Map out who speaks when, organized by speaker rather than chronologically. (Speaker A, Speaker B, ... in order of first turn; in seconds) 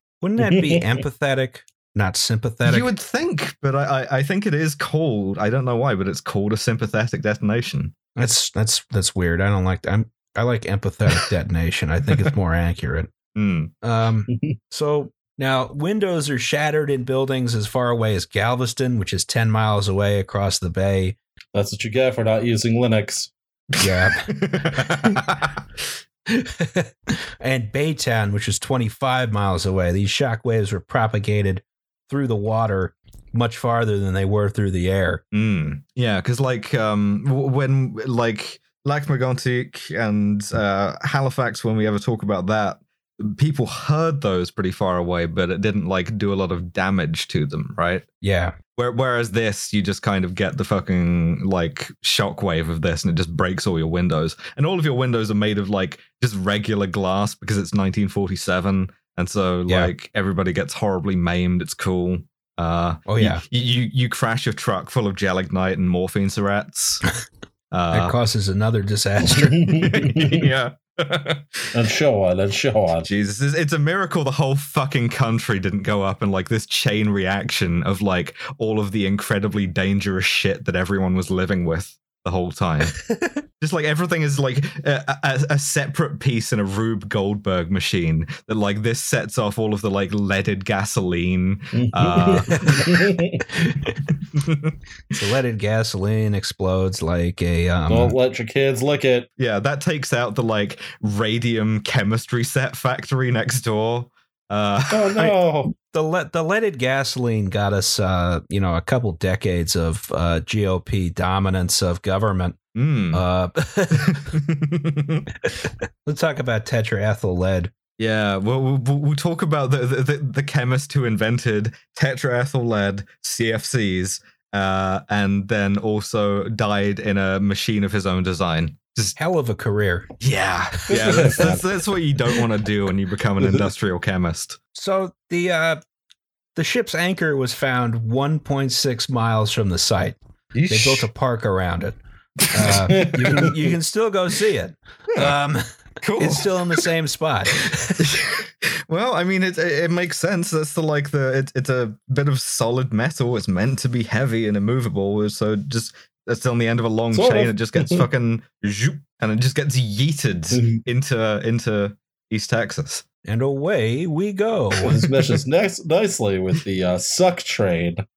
Speaker A: 0.2-2.9, 8.2-13.1, 13.8-21.2, 23.8-25.2, 26.3-35.2, 48.2-48.5, 63.1-63.4, 67.9-69.9, 92.5-92.9, 93.5-94.1, 95.1-98.1, 105.9-112.6, 113.1-114.2, 115.4-117.7, 129.2-130.1, 131.0-131.6, 134.7-135.8, 136.5-140.2, 140.7-141.9, 142.5-145.6, 146.2-148.1, 163.2-164.9
Speaker B: 0.4-0.8, 21.5-23.3, 69.3-70.5, 71.7-73.1, 91.7-93.5, 97.9-99.3, 104.9-105.7, 130.9-131.6, 142.8-143.7, 157.1-158.1, 160.5-160.8, 164.8-168.0
Speaker C: 2.6-7.9, 13.3-13.7, 23.7-25.6, 35.3-48.0, 48.8-67.0, 67.7-68.1, 69.7-71.7, 73.0-83.0, 83.6-93.0, 94.3-94.8, 99.4-105.3, 112.7-113.2, 113.9-115.3, 118.0-129.2, 130.2-134.6, 140.5-141.1, 142.4-143.4, 146.0-146.8, 148.0-163.0